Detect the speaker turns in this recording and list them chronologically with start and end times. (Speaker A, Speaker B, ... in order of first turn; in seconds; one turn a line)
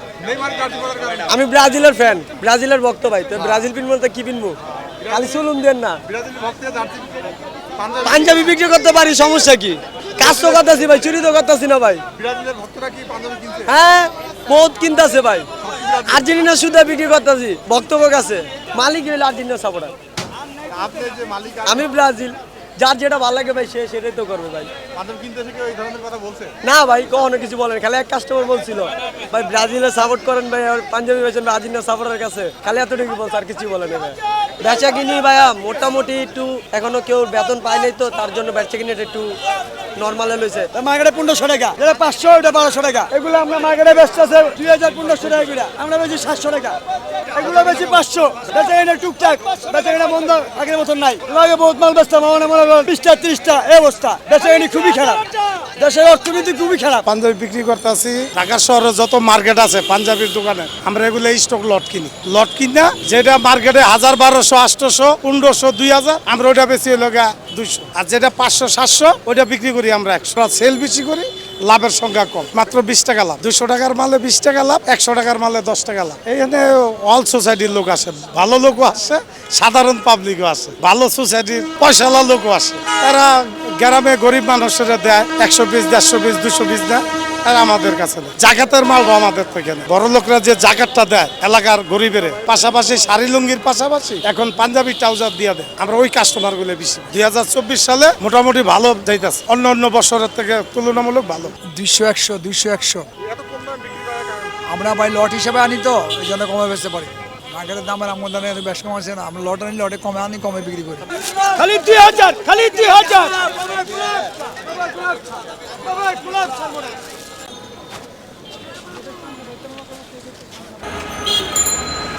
Speaker A: 0.2-1.3
Speaker B: 1.3-4.6
Speaker B: 5.1-6.0
Speaker A: 6.1-7.2
Speaker A: 7.8-8.3
Speaker B: 8.0-12.0
Speaker A: 12.2-13.7
Speaker B: 13.7-15.5
Speaker A: 15.6-16.2
Speaker B: 16.1-19.9
Speaker A: 20.7-21.9
Speaker B: 21.7-24.7
Speaker A: 24.9-26.5
Speaker B: 26.6-39.3
Speaker B: 40.0-40.7
Speaker C: 40.7-46.8
Speaker C: 47.3-57.0
Speaker D: 57.1-101.5
Speaker E: 101.7-103.1
Speaker A: 103.2-104.5
Speaker E: 104.7-111.1
Speaker C: 111.3-114.1
Speaker C: 116.0-116.5